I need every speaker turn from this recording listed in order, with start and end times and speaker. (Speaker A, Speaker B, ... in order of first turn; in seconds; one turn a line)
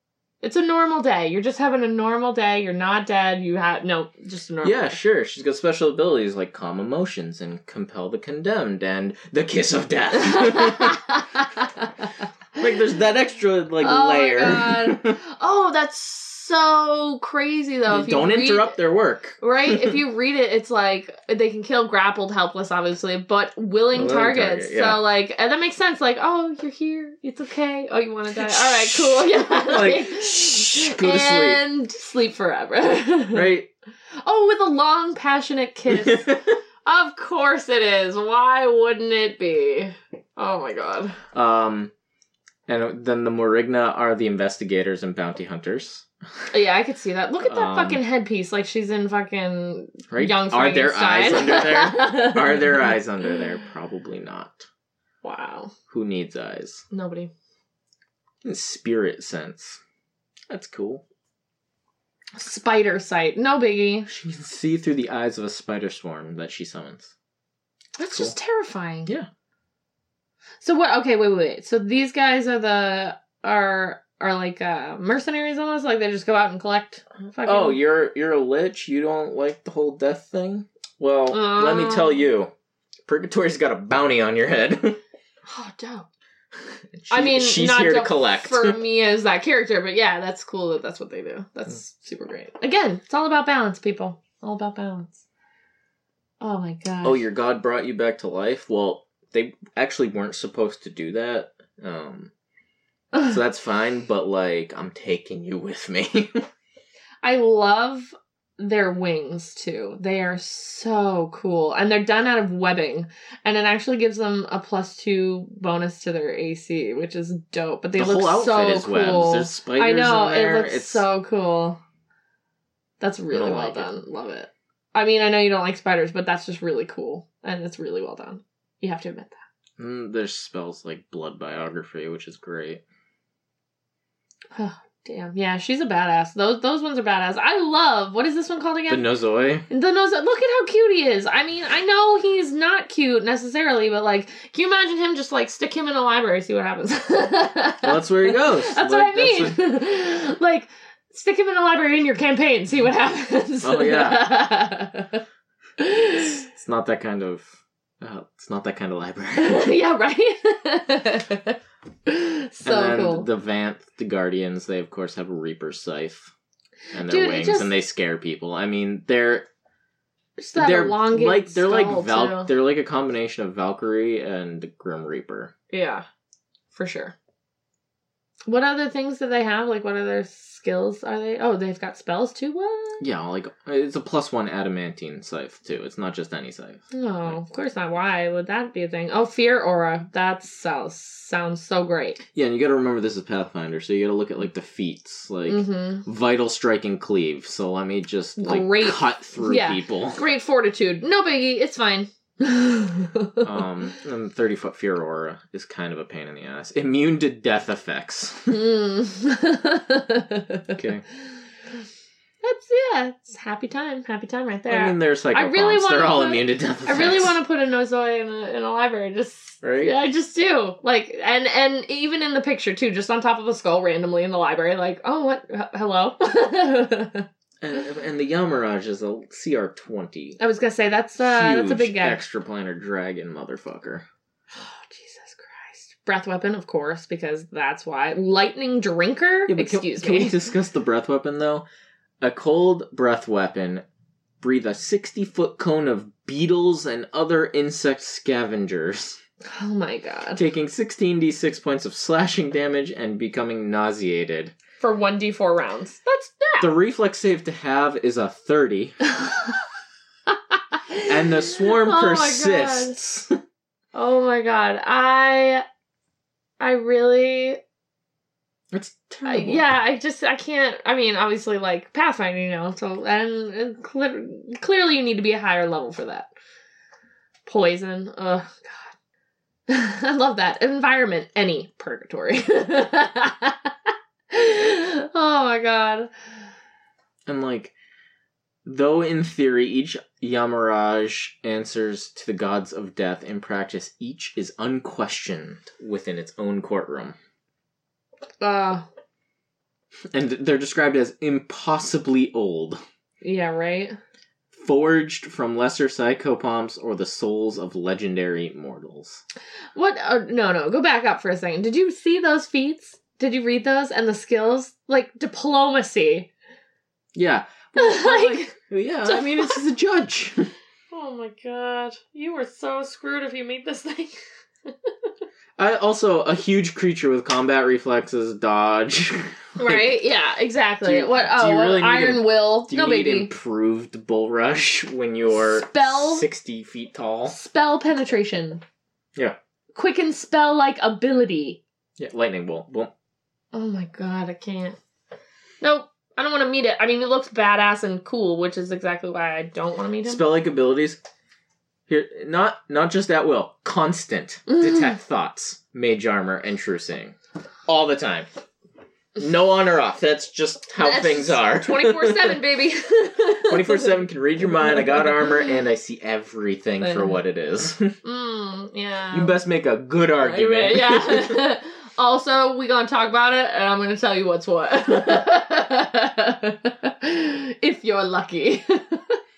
Speaker A: 0.4-5.0
Speaker B: 4.6-11.0
Speaker A: 10.1-12.1
Speaker B: 12.6-15.2
Speaker A: 13.8-18.7
Speaker B: 17.9-20.0
Speaker A: 19.4-33.5
Speaker B: 23.9-25.0
Speaker B: 28.4-31.6
Speaker B: 33.3-33.7
Speaker A: 34.2-41.2
Speaker B: 35.9-36.5
Speaker B: 41.3-41.9
Speaker B: 42.7-46.5
Speaker A: 46.5-52.9
Speaker B: 47.4-48.0
Speaker B: 50.1-54.7
Speaker A: 55.2-55.7
Speaker B: 55.9-56.9
Speaker A: 56.9-57.3
Speaker B: 58.4-59.8
Speaker B: 60.5-61.0
Speaker A: 62.4-64.1
Speaker B: 64.1-67.1
Speaker A: 68.0-69.1
Speaker A: 70.6-77.8
Speaker B: 77.4-82.5
Speaker A: 81.3-82.3
Speaker B: 83.0-85.0
Speaker A: 85.5-86.1
Speaker B: 86.9-88.8
Speaker A: 87.1-95.2
Speaker A: 96.4-97.2
Speaker B: 97.0-102.3
Speaker B: 103.2-106.4
Speaker A: 107.2-121.8
Speaker B: 118.0-121.0
Speaker A: 123.0-129.4
Speaker B: 123.3-123.9
Speaker B: 129.8-132.8
Speaker A: 134.5-139.0
Speaker B: 138.9-139.7
Speaker A: 139.7-155.2
Speaker B: 147.8-149.6
Speaker B: 153.6-154.2
Speaker A: 155.8-156.4
Speaker B: 156.2-159.7
Speaker A: 159.3-163.3
Speaker B: 162.6-166.3
Speaker B: 166.9-169.5
Speaker A: 167.1-167.7
Speaker A: 170.4-172.5
Speaker B: 170.6-175.5
Speaker A: 175.7-176.0
Speaker A: 176.7-177.1
Speaker A: 178.5-183.1
Speaker B: 183.0-187.4
Speaker A: 186.9-192.2
Speaker B: 192.3-200.2
Speaker A: 195.5-196.0
Speaker A: 198.4-203.4
Speaker B: 203.4-208.6
Speaker A: 208.5-210.8
Speaker B: 210.7-211.0
Speaker A: 212.4-227.3
Speaker B: 214.7-217.4
Speaker B: 219.6-219.9
Speaker B: 227.6-230.4
Speaker A: 230.4-232.2
Speaker B: 231.2-234.0
Speaker A: 234.5-240.4
Speaker B: 239.5-241.6
Speaker B: 242.2-243.8
Speaker B: 244.4-249.2
Speaker A: 249.4-250.4
Speaker B: 250.3-254.5
Speaker A: 254.8-256.7
Speaker B: 256.6-259.0
Speaker A: 259.2-259.5
Speaker A: 260.5-263.0
Speaker B: 261.0-263.4
Speaker A: 263.9-265.6
Speaker A: 266.6-267.6
Speaker B: 268.7-269.6
Speaker A: 269.2-276.3
Speaker A: 277.4-278.9
Speaker A: 279.7-283.7
Speaker A: 284.3-286.1
Speaker B: 287.2-287.7
Speaker B: 288.6-297.1
Speaker A: 298.4-298.9
Speaker B: 300.1-302.8
Speaker A: 303.2-304.0
Speaker B: 304.5-309.2
Speaker A: 309.7-316.3
Speaker B: 317.1-320.5
Speaker A: 317.8-319.6
Speaker A: 320.9-324.1
Speaker B: 325.6-330.0
Speaker A: 329.6-333.3
Speaker B: 330.8-337.3
Speaker A: 335.3-336.2
Speaker A: 337.3-338.6
Speaker A: 339.7-341.6
Speaker B: 342.0-342.9
Speaker A: 343.5-344.8
Speaker A: 345.6-350.2
Speaker B: 350.0-351.0
Speaker B: 351.9-357.1
Speaker B: 357.7-358.3
Speaker B: 359.2-362.4
Speaker A: 360.8-363.9
Speaker B: 363.4-368.0
Speaker A: 366.8-367.1
Speaker A: 368.0-369.4
Speaker B: 369.1-371.5
Speaker A: 370.2-379.2